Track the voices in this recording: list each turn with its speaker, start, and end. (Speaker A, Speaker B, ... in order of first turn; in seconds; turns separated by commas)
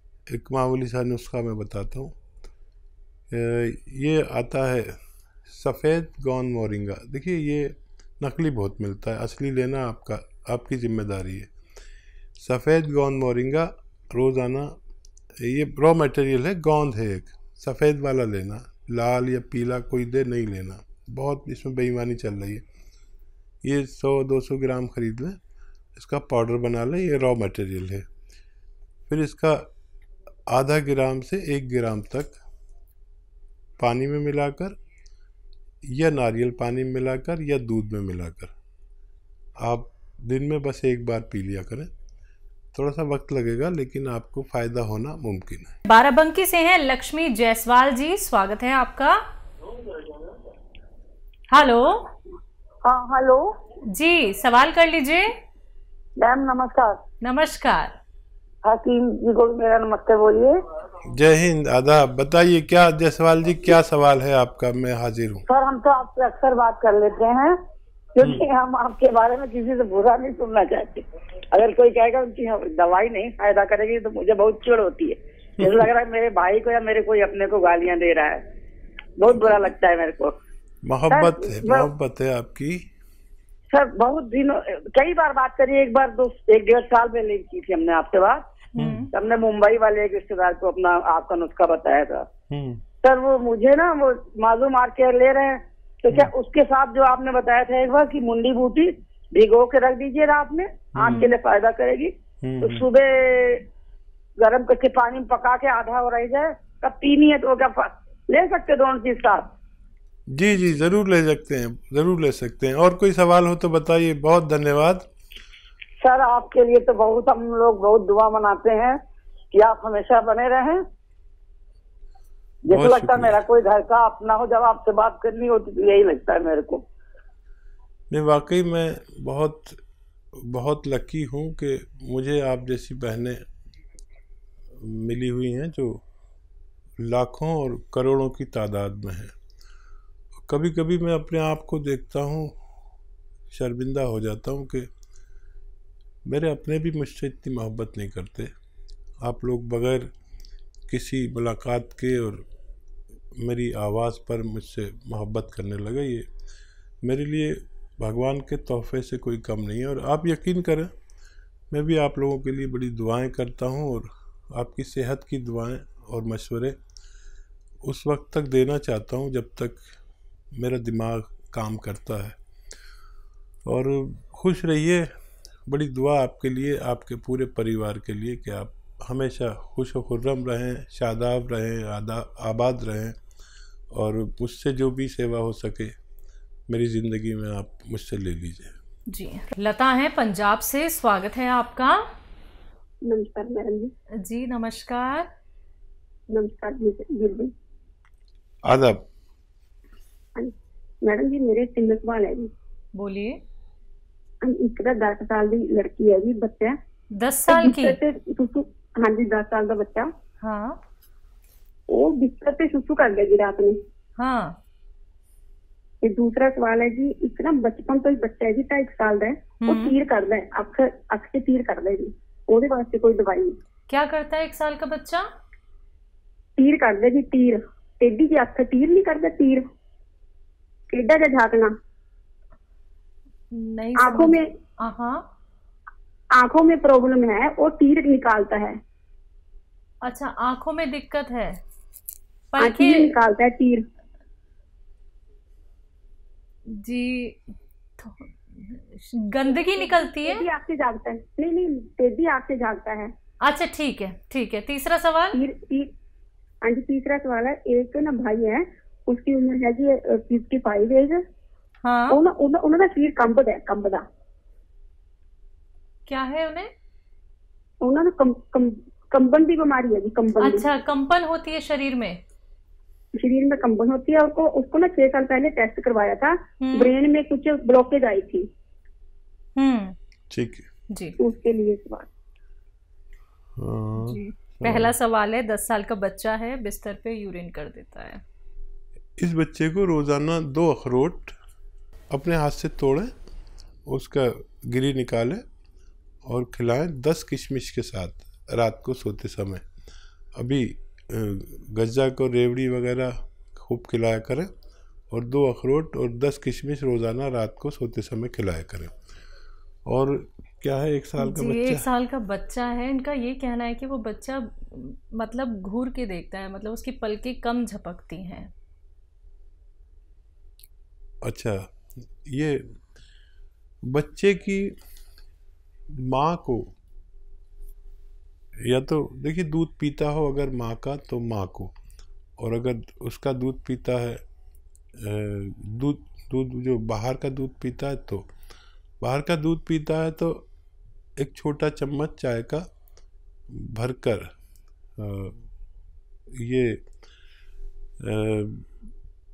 Speaker A: 0.3-2.1, Speaker A: 3.3-4.9, Speaker A: 5.5-11.5, Speaker A: 12.4-14.7, Speaker A: 15.4-22.6, Speaker A: 23.6-25.4, Speaker A: 26.0-28.1, Speaker A: 29.1-29.7, Speaker A: 30.5-32.4, Speaker A: 33.8-34.8, Speaker A: 35.9-38.5, Speaker A: 39.6-41.9, Speaker A: 42.7-45.7, Speaker B: 45.9-49.2, Speaker B: 51.5-52.1, Speaker C: 52.9-53.6, Speaker B: 53.9-55.3, Speaker C: 56.2-57.0, Speaker B: 57.2-57.9, Speaker C: 58.6-60.6, Speaker A: 61.1-65.4, Speaker C: 65.5-67.6, Speaker C: 68.2-78.4, Speaker C: 79.2-80.4, Speaker A: 80.8-82.8, Speaker C: 81.1-81.9, Speaker C: 83.7-88.5, Speaker A: 88.8-89.0, Speaker B: 88.8-89.1, Speaker C: 89.1-92.3, Speaker A: 92.5-92.8, Speaker C: 93.0-103.7, Speaker A: 101.0-101.3, Speaker A: 102.4-102.9, Speaker C: 104.4-109.5, Speaker A: 110.3-115.1, Speaker C: 116.0-119.0, Speaker C: 119.5-120.8, Speaker C: 122.7-126.8, Speaker A: 122.7-123.4, Speaker A: 128.1-129.8, Speaker A: 130.4-133.4, Speaker A: 134.8-136.0, Speaker A: 137.0-139.3, Speaker A: 140.5-142.6, Speaker A: 143.5-144.9, Speaker A: 146.3-148.5, Speaker A: 149.2-150.1, Speaker A: 150.9-152.5, Speaker A: 153.4-156.3, Speaker A: 157.0-160.9, Speaker A: 161.7-166.8, Speaker A: 167.8-169.8, Speaker A: 170.6-172.4, Speaker A: 173.7-175.1, Speaker A: 175.7-183.2, Speaker A: 183.9-185.9, Speaker A: 186.7-188.8, Speaker B: 189.1-192.0, Speaker D: 193.1-193.9, Speaker B: 194.2-195.3, Speaker D: 196.3-197.5, Speaker A: 198.7-199.1, Speaker D: 200.4-202.5, Speaker B: 202.9-203.4, Speaker D: 204.4-206.8, Speaker B: 207.2-208.0, Speaker D: 207.5-210.1, Speaker B: 210.4-210.8, Speaker D: 211.9-213.8, Speaker B: 214.2-214.6, Speaker D: 216.0-223.6, Speaker B: 219.6-219.9, Speaker B: 223.9-225.3, Speaker D: 226.6-229.6, Speaker D: 230.9-231.7, Speaker B: 233.5-235.2, Speaker D: 234.0-234.5, Speaker D: 236.3-238.8, Speaker B: 240.0-241.6, Speaker B: 242.5-243.2, Speaker D: 242.6-243.8, Speaker B: 246.7-247.4, Speaker B: 248.0-250.4, Speaker D: 249.5-253.1, Speaker B: 253.4-255.4, Speaker D: 255.3-255.9, Speaker D: 256.6-261.2, Speaker B: 261.8-262.2, Speaker D: 262.1-264.1, Speaker B: 266.1-266.7, Speaker D: 267.8-270.7, Speaker B: 270.4-272.2, Speaker D: 273.2-278.5, Speaker B: 276.6-276.9, Speaker B: 279.6-279.9, Speaker A: 280.3-280.7, Speaker D: 281.2-282.1, Speaker A: 283.6-284.9, Speaker B: 284.0-288.2, Speaker A: 289.2-291.4, Speaker A: 292.1-293.1, Speaker A: 293.9-295.4, Speaker A: 296.3-299.6, Speaker A: 300.4-304.5, Speaker A: 305.1-308.9, Speaker A: 309.9-311.9, Speaker B: 311.2-318.5, Speaker A: 321.2-321.6, Speaker A: 322.3-322.6, Speaker A: 323.9-324.7, Speaker A: 325.9-326.7, Speaker A: 328.6-331.8, Speaker A: 332.4-334.2, Speaker A: 335.0-338.3, Speaker A: 339.0-340.5, Speaker A: 341.2-342.7, Speaker A: 343.5-344.3, Speaker A: 345.0-345.4, Speaker A: 346.4-346.8, Speaker A: 348.0-348.7